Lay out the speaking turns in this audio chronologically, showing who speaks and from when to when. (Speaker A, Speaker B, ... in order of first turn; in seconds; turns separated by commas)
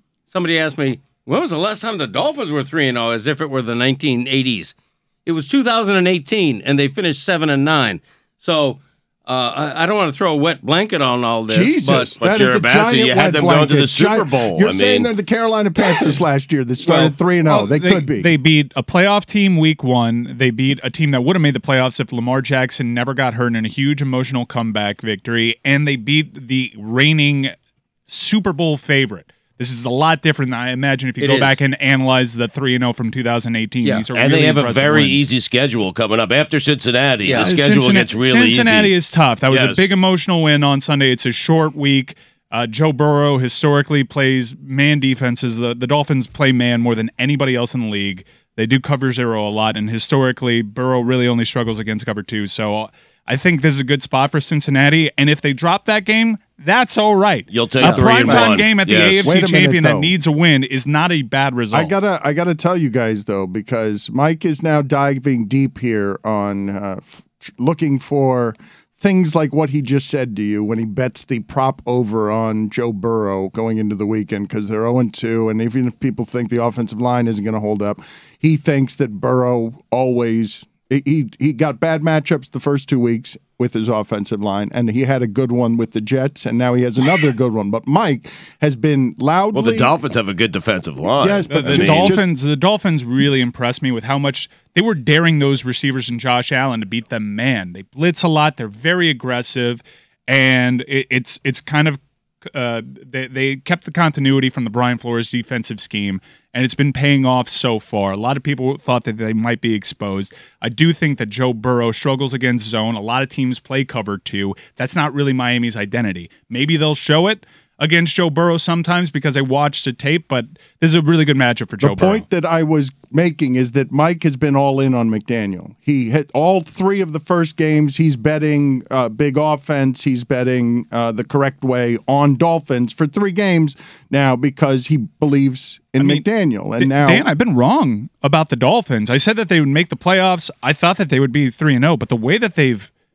Speaker A: 0.3-12.1, Speaker B: 11.5-18.3, Speaker C: 12.2-15.1, Speaker D: 16.8-27.6, Speaker D: 28.1-35.3, Speaker A: 31.2-31.6, Speaker C: 34.1-39.0, Speaker A: 37.2-37.5, Speaker D: 37.4-61.9, Speaker C: 39.5-39.9, Speaker C: 57.5-59.3, Speaker A: 57.8-58.5, Speaker B: 59.2-60.1, Speaker B: 61.7-90.0, Speaker C: 89.5-92.2, Speaker B: 91.2-92.2, Speaker D: 91.5-122.2, Speaker B: 121.8-137.3, Speaker D: 136.0-136.3, Speaker D: 136.8-142.9